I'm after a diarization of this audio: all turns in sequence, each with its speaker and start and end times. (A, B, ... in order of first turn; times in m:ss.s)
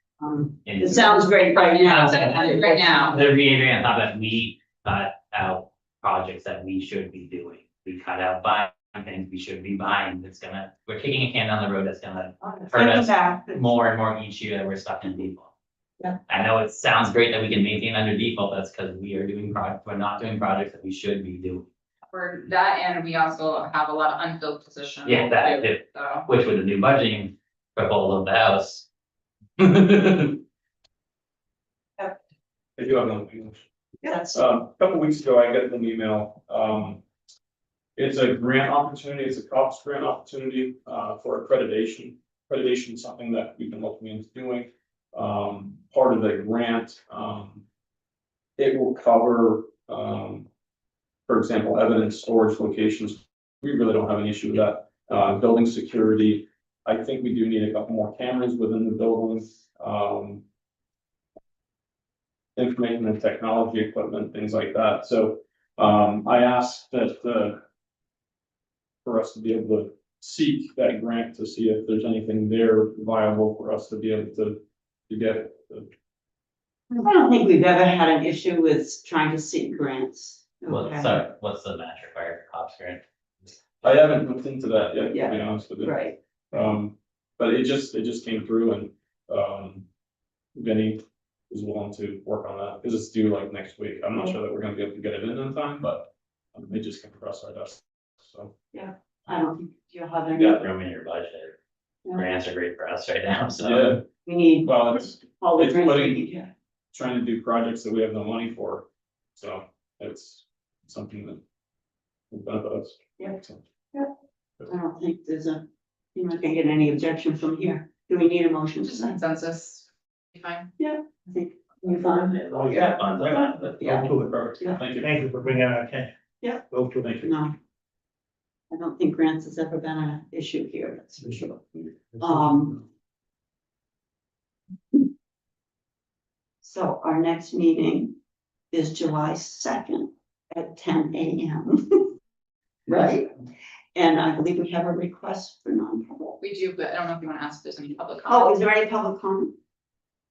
0:00.2-0:03.2 A
0:00.6-0:01.2 B
0:01.5-0:03.2 C
0:03.1-0:15.5 B
0:12.4-0:13.7 A
0:16.3-0:21.7 B
0:22.1-0:26.3 C
0:25.0-0:28.8 B
0:29.6-0:30.4 B
0:32.8-0:33.7 D
0:34.0-0:34.4 A
0:34.3-0:37.0 D
0:38.0-0:47.6 D
0:48.6-0:50.5 D
0:51.3-1:00.4 D
1:02.6-1:07.6 D
1:09.0-1:15.9 D
1:16.9-1:21.2 A
1:20.7-1:23.0 B
1:23.8-1:29.8 D
1:25.1-1:26.2 A
1:30.6-1:38.5 D
1:38.7-1:40.6 A
1:40.4-1:40.6 D
1:40.5-1:41.6 B
1:42.1-1:44.0 B
1:43.6-1:44.0 D
1:44.2-1:46.5 A
1:44.6-1:46.2 D
1:46.9-1:51.4 D
1:52.3-1:53.6 D
1:54.7-1:55.6 A
1:56.2-1:59.2 A
1:58.8-2:00.7 C
2:00.8-2:04.8 A
2:02.0-2:03.8 B
2:02.5-2:06.1 E
2:04.3-2:05.1 D
2:06.7-2:07.3 E
2:07.0-2:07.3 D
2:07.2-2:07.5 A
2:08.7-2:12.8 A
2:16.6-2:18.1 A
2:18.7-2:22.1 A
2:22.9-2:23.3 A
2:24.0-2:26.4 A
2:26.4-2:28.6 C
2:28.3-2:29.5 A